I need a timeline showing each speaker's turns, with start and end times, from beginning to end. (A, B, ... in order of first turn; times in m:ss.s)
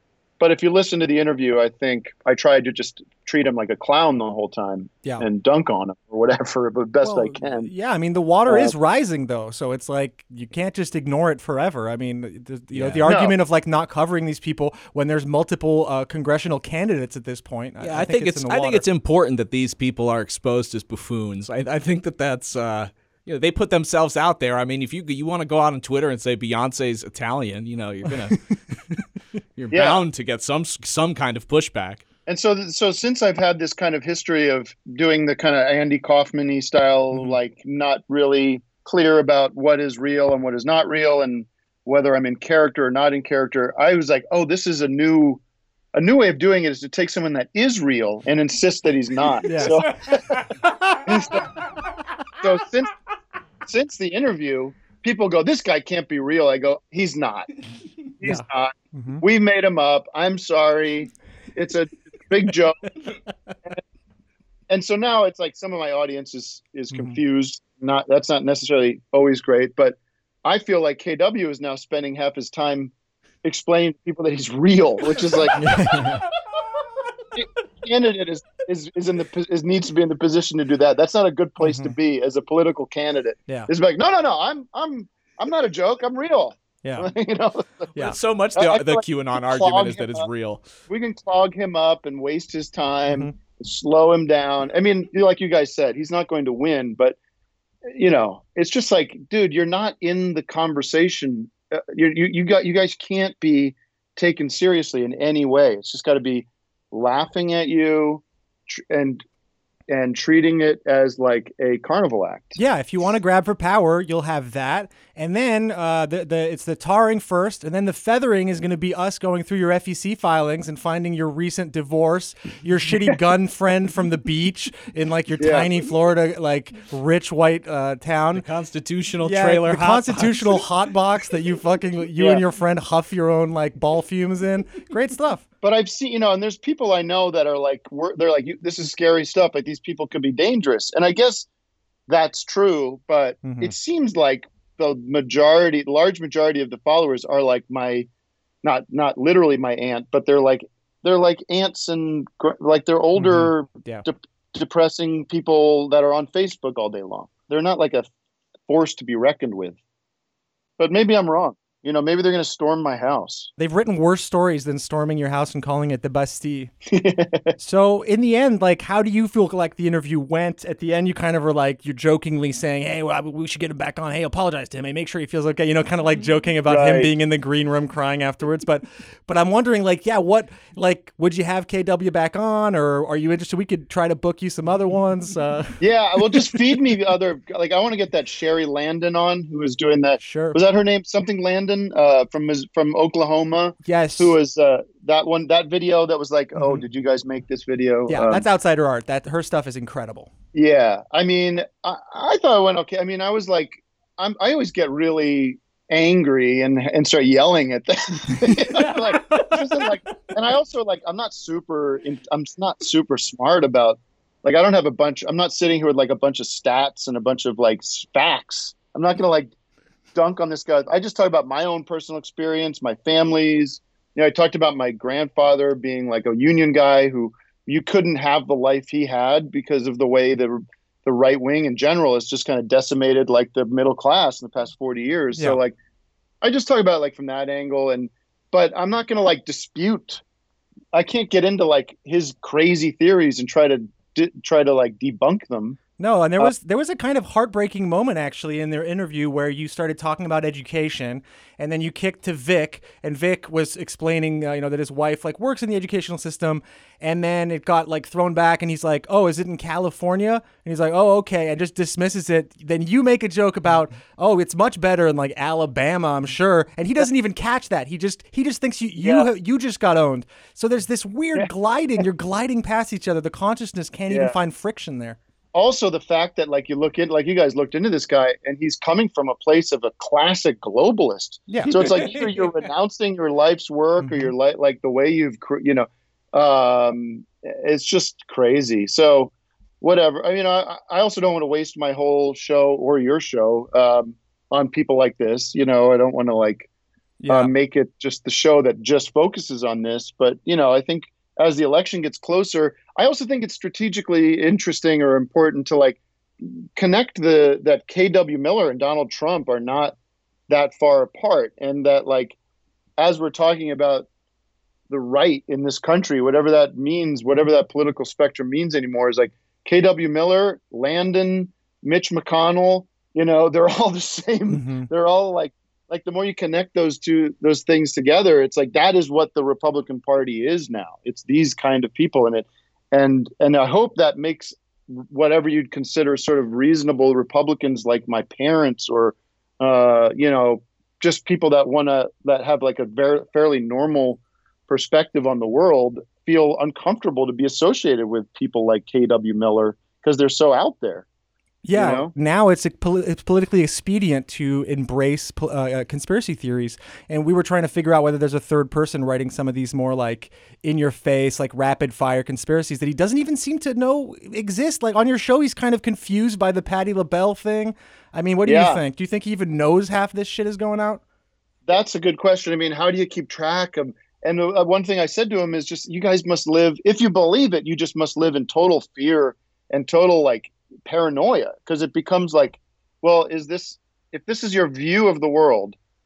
0:00.4-0:07.7 A
0:07.0-0:18.8 B
0:08.5-0:08.7 A
0:12.7-0:13.1 C
0:13.0-0:13.4 A
0:17.8-0:29.0 C
0:29.6-0:32.0 C
0:29.7-0:30.0 A
0:32.3-0:45.4 A
0:37.1-0:37.4 B
0:46.0-0:49.9 A
0:49.4-0:50.2 B
0:51.1-0:51.4 A
0:52.4-0:52.9 A
0:53.7-0:57.5 A
0:58.2-1:02.8 A
0:58.2-0:59.2 B
1:04.7-1:12.9 A
1:06.9-1:07.2 B
1:13.4-1:15.7 A
1:15.6-1:16.2 B
1:17.4-1:27.9 A
1:21.6-1:22.0 B
1:26.8-1:27.1 B
1:27.9-1:30.6 C
1:28.6-1:30.3 A
1:30.9-1:37.2 A
1:37.9-1:49.2 A
1:49.9-1:52.6 A
1:52.6-2:08.5 B
2:05.4-2:05.7 A
2:08.3-2:10.6 C
2:09.2-2:15.4 B
2:12.2-2:12.4 A
2:15.6-2:21.5 A
2:22.1-2:28.1 A
2:23.4-2:23.8 B
2:28.6-2:38.1 A
2:33.1-2:34.1 B
2:38.7-2:39.8 A
2:40.8-2:43.5 A
2:43.6-2:46.7 B
2:46.9-2:47.5 A
2:47.6-3:06.5 B
2:56.7-2:57.1 A
3:05.8-3:18.5 A
3:10.2-3:10.6 B
3:13.8-3:14.4 B
3:16.6-3:16.9 B
3:18.1-3:20.3 B
3:20.5-3:39.5 A
3:28.8-3:29.9 B
3:40.2-3:55.8 A
3:55.3-3:55.6 B
3:56.4-4:00.2 A
4:00.9-4:05.8 A
4:06.0-4:35.2 B
4:29.0-4:29.3 A
4:34.1-4:34.4 A
4:35.5-4:56.7 A
4:41.5-4:42.3 B
4:41.7-4:42.6 C
4:44.0-4:44.3 B
4:57.2-4:57.5 B
4:57.3-5:10.0 A
5:10.5-5:12.4 A
5:13.0-5:14.1 A
5:14.9-5:51.0 A
5:24.5-5:24.9 B
5:51.6-6:11.0 B
5:51.7-5:52.1 A
6:08.4-6:08.8 A
6:11.7-6:25.8 A